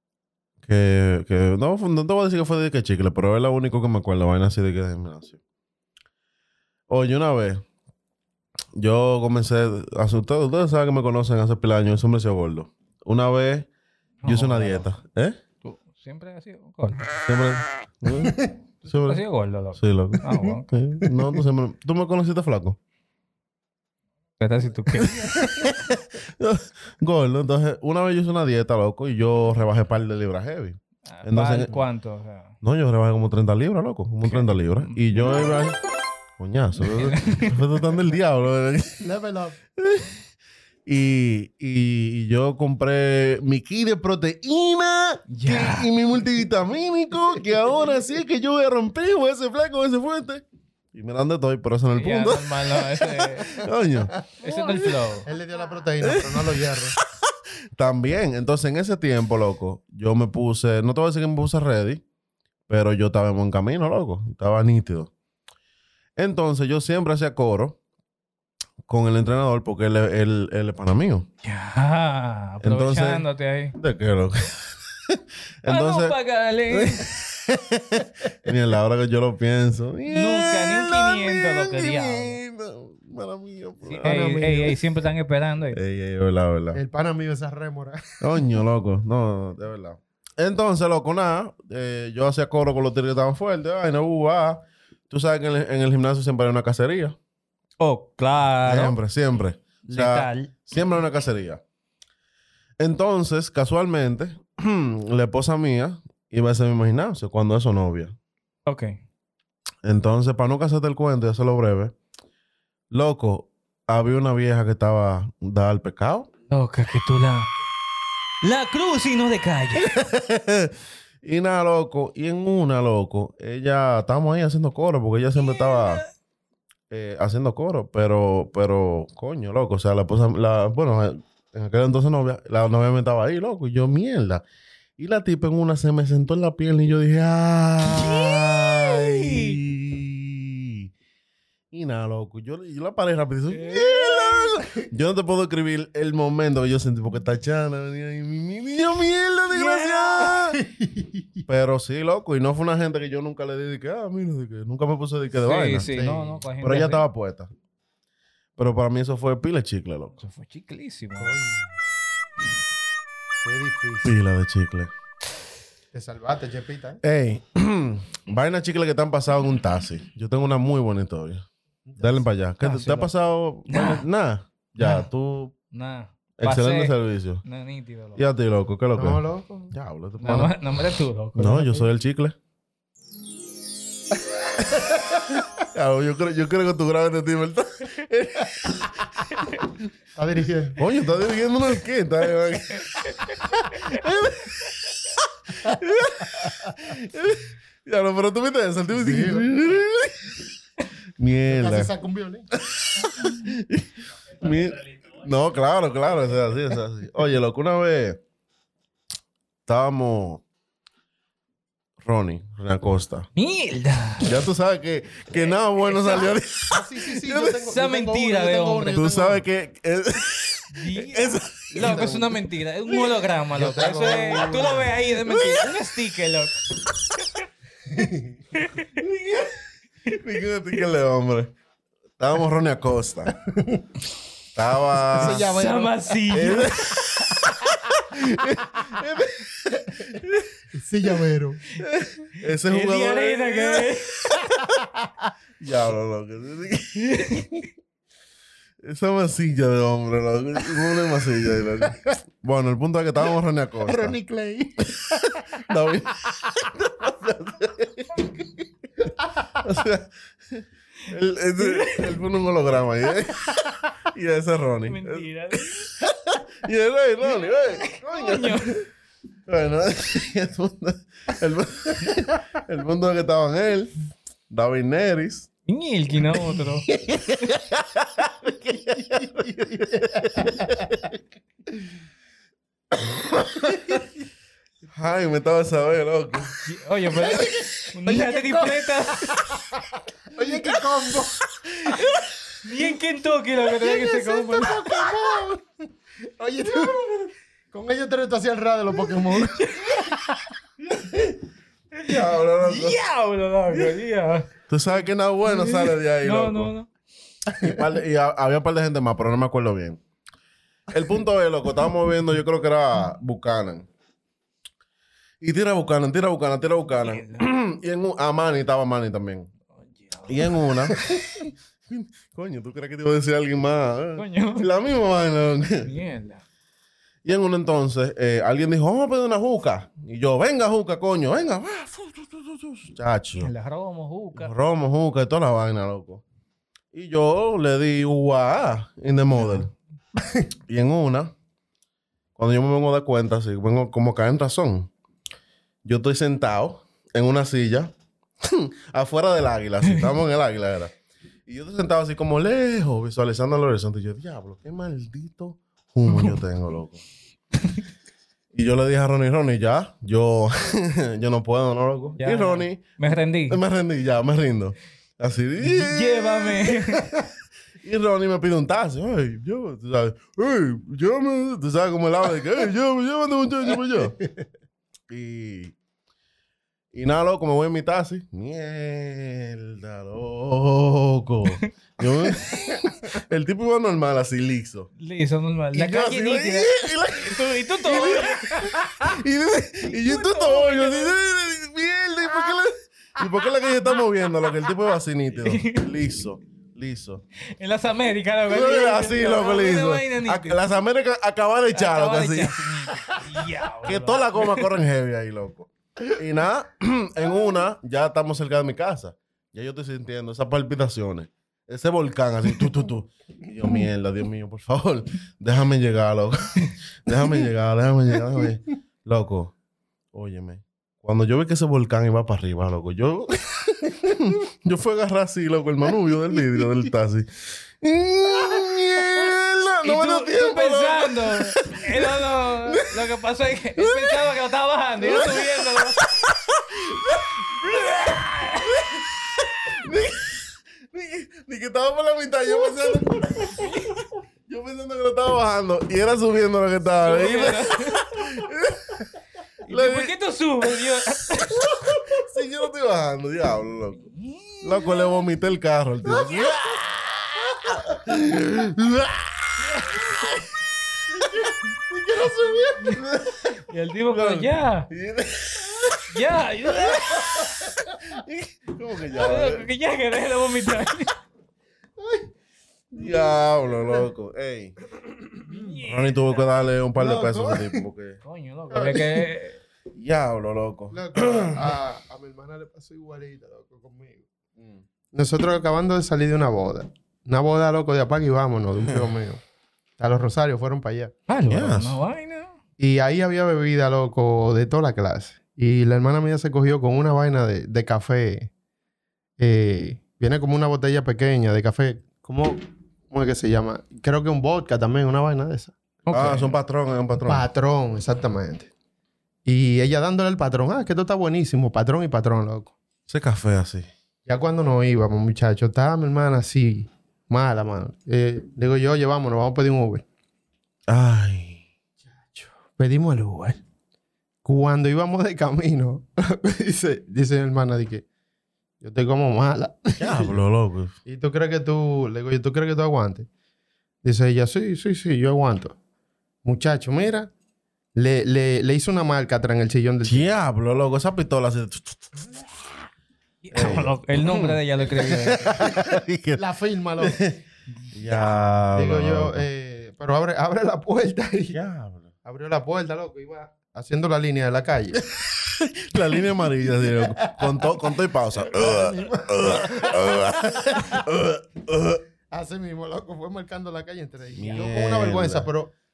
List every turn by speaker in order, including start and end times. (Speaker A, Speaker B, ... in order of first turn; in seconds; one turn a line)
Speaker A: 0.6-5.4
Speaker A: 6.9-7.6
Speaker A: 8.8-13.7
Speaker B: 14.2-14.9
Speaker A: 14.2-15.4
Speaker B: 15.6-17.1
Speaker A: 17.1-19.2
Speaker C: 18.2-18.5
Speaker B: 19.0-20.7
Speaker A: 19.7-22.8
Speaker B: 24.4-25.3
Speaker C: 24.9-25.8
Speaker A: 25.0-31.8
Speaker B: 31.1-32.5
Speaker A: 32.6-35.8
Speaker B: 34.2-35.3
Speaker A: 36.4-39.0
Speaker B: 36.9-37.5
Speaker C: 39.0-39.6
Speaker A: 39.8-40.1
Speaker A: 40.9-55.0
Speaker B: 45.3-45.9
Speaker B: 51.9-53.6
Speaker C: 54.1-57.0
Speaker B: 54.4-55.3
Speaker A: 56.0-62.0
Speaker A: 62.7-65.1
Speaker A: 66.2-67.8
Speaker A: 68.9-71.3
Speaker B: 71.4-73.8
Speaker A: 72.6-76.1
Speaker B: 75.7-77.1
Speaker A: 76.7-84.7
Speaker B: 80.1-82.4
Speaker B: 83.9-85.8
Speaker C: 84.0-84.7
Speaker A: 85.7-86.8
Speaker C: 86.7-88.5
Speaker A: 88.2-97.2
Speaker B: 97.8-99.0
Speaker A: 98.7-101.6
Speaker B: 99.8-100.5
Speaker A: 102.8-108.1
Speaker B: 108.7-109.0
Speaker A: 109.8-111.9
Speaker A: 112.9-116.3
Speaker B: 116.5-117.5
Speaker B: 118.4-120.0
Speaker A: 119.8-126.0
Speaker B: 125.3-126.1
Speaker A: 126.9-134.4
Speaker A: 135.0-140.9
Speaker B: 137.8-139.6
Speaker A: 141.7-150.6
Speaker B: 143.5-144.6
Speaker B: 149.5-150.4
Speaker C: 150.5-151.4
Speaker A: 151.5-157.5
Speaker B: 155.4-157.0
Speaker A: 158.6-160.2
Speaker B: 160.2-161.4
Speaker C: 161.2-161.7
Speaker C: 163.4-164.2
Speaker A: 164.0-164.9
Speaker C: 165.9-167.0
Speaker A: 167.0-171.4
Speaker C: 171.9-172.2
Speaker A: 172.0-175.5
Speaker B: 172.6-173.1
Speaker B: 173.7-174.0
Speaker B: 174.8-175.1
Speaker B: 175.7-178.2
Speaker A: 176.4-177.4
Speaker A: 178.2-180.5
Speaker C: 178.9-179.7
Speaker B: 180.2-181.9
Speaker A: 181.3-182.3
Speaker C: 184.7-185.2
Speaker A: 185.6-189.7
Speaker C: 190.2-190.8
Speaker A: 190.8-193.3
Speaker B: 192.7-194.7
Speaker A: 193.8-200.5
Speaker C: 196.4-196.8
Speaker C: 198.9-199.5
Speaker A: 201.2-201.9
Speaker C: 201.5-202.4
Speaker A: 202.5-208.2
Speaker A: 209.7-210.4
Speaker A: 212.0-213.3
Speaker B: 213.3-214.3
Speaker A: 214.2-217.6
Speaker B: 215.8-216.3
Speaker C: 216.7-219.4
Speaker B: 217.5-219.0
Speaker A: 218.9-222.3
Speaker B: 220.7-226.6
Speaker C: 221.8-222.2
Speaker C: 223.5-224.9
Speaker A: 225.1-225.8
Speaker B: 227.2-227.4
Speaker C: 227.9-228.3
Speaker B: 228.5-229.0
Speaker A: 228.9-231.5
Speaker A: 232.2-233.3
Speaker C: 233.5-233.8
Speaker A: 234.5-235.4
Speaker C: 235.1-236.5
Speaker B: 235.2-236.9
Speaker A: 236.3-240.6
Speaker C: 240.7-241.6
Speaker A: 241.8-244.8
Speaker B: 242.4-244.4
Speaker C: 244.6-245.1
Speaker A: 245.6-247.4
Speaker B: 246.9-247.5
Speaker A: 248.8-254.2
Speaker C: 253.8-255.6
Speaker A: 254.8-258.5
Speaker C: 259.2-259.7
Speaker A: 259.6-265.3
Speaker B: 261.6-262.1
Speaker B: 264.9-265.9
Speaker A: 265.8-268.8
Speaker B: 267.7-268.8
Speaker A: 269.5-273.9
Speaker A: 274.5-275.5
Speaker B: 275.7-276.9
Speaker A: 276.5-281.1
Speaker C: 279.7-280.9
Speaker A: 282.9-284.0
Speaker C: 283.7-284.0
Speaker A: 284.9-286.6
Speaker B: 286.6-289.4
Speaker C: 287.2-291.5
Speaker A: 291.6-292.2
Speaker B: 291.9-295.0
Speaker C: 293.7-300.1
Speaker B: 299.3-300.4
Speaker A: 300.9-301.4
Speaker B: 301.9-304.5
Speaker A: 302.0-303.0
Speaker A: 304.7-306.7
Speaker B: 305.4-306.9
Speaker C: 307.5-307.8
Speaker A: 307.6-310.0
Speaker A: 310.9-313.9
Speaker A: 315.4-319.5
Speaker B: 317.0-317.4
Speaker B: 319.9-320.8
Speaker A: 320.3-325.9
Speaker B: 324.1-324.7
Speaker B: 325.8-326.4
Speaker A: 327.2-333.5
Speaker B: 333.4-334.5
Speaker A: 334.4-336.2
Speaker A: 336.9-339.7
Speaker A: 340.7-341.3
Speaker A: 342.4-344.9
Speaker A: 345.8-350.9
Speaker A: 351.5-357.0
Speaker B: 356.1-356.4
Speaker B: 357.6-357.8
Speaker A: 358.5-363.0
Speaker B: 362.2-363.6
Speaker A: 363.5-367.0
Speaker B: 365.6-367.1
Speaker A: 367.8-374.2
Speaker A: 375.1-375.7
Speaker A: 376.9-384.9
Speaker B: 385.0-389.1
Speaker A: 385.7-397.2
Speaker B: 389.8-391.1
Speaker B: 395.4-395.9
Speaker B: 397.6-400.6
Speaker A: 398.5-419.5
Speaker B: 401.7-404.7
Speaker A: 420.1-433.1
Speaker B: 429.8-436.1
Speaker A: 433.8-434.3
Speaker A: 435.0-449.1
Speaker B: 437.4-438.8
Speaker B: 443.5-444.0
Speaker B: 447.0-448.3
Speaker B: 449.6-451.7
Speaker A: 449.7-450.1
Speaker A: 451.3-454.1
Speaker B: 453.9-455.2
Speaker A: 454.6-462.3
Speaker C: 456.1-456.4
Speaker C: 457.5-457.8
Speaker B: 459.6-460.0
Speaker C: 461.2-463.1
Speaker A: 462.9-469.7
Speaker B: 463.7-464.9
Speaker B: 466.1-467.4
Speaker C: 467.4-468.0
Speaker B: 469.1-471.1
Speaker C: 472.0-472.3
Speaker C: 472.9-474.1
Speaker A: 472.9-474.7
Speaker C: 475.0-475.7
Speaker B: 475.5-476.5
Speaker A: 475.8-478.2
Speaker C: 476.9-477.8
Speaker B: 478.2-479.6
Speaker C: 478.7-479.2
Speaker A: 479.9-481.7
Speaker C: 480.9-484.3
Speaker C: 485.1-489.4
Speaker C: 490.0-491.1
Speaker B: 491.3-492.5
Speaker A: 491.5-492.0
Speaker C: 492.8-498.5
Speaker C: 499.4-505.7
Speaker B: 506.1-506.5
Speaker A: 506.1-507.4
Speaker C: 507.2-508.7
Speaker C: 509.4-512.7
Speaker A: 513.1-513.9
Speaker C: 514.2-520.0
Speaker A: 520.9-521.6
Speaker C: 522.1-523.6
Speaker C: 524.4-528.0
Speaker C: 528.8-530.4
Speaker A: 530.0-530.9
Speaker C: 531.0-533.3
Speaker C: 534.0-535.8
Speaker C: 536.4-537.3
Speaker C: 538.0-540.3
Speaker A: 540.0-542.7
Speaker B: 543.4-545.6
Speaker A: 543.5-546.4
Speaker C: 545.6-547.3
Speaker A: 547.0-547.4
Speaker A: 547.9-549.4
Speaker C: 548.7-551.6
Speaker A: 551.5-552.1
Speaker C: 552.2-555.0
Speaker A: 555.1-562.0
Speaker C: 556.7-557.8
Speaker C: 558.4-561.1
Speaker C: 562.3-565.7
Speaker A: 564.4-565.5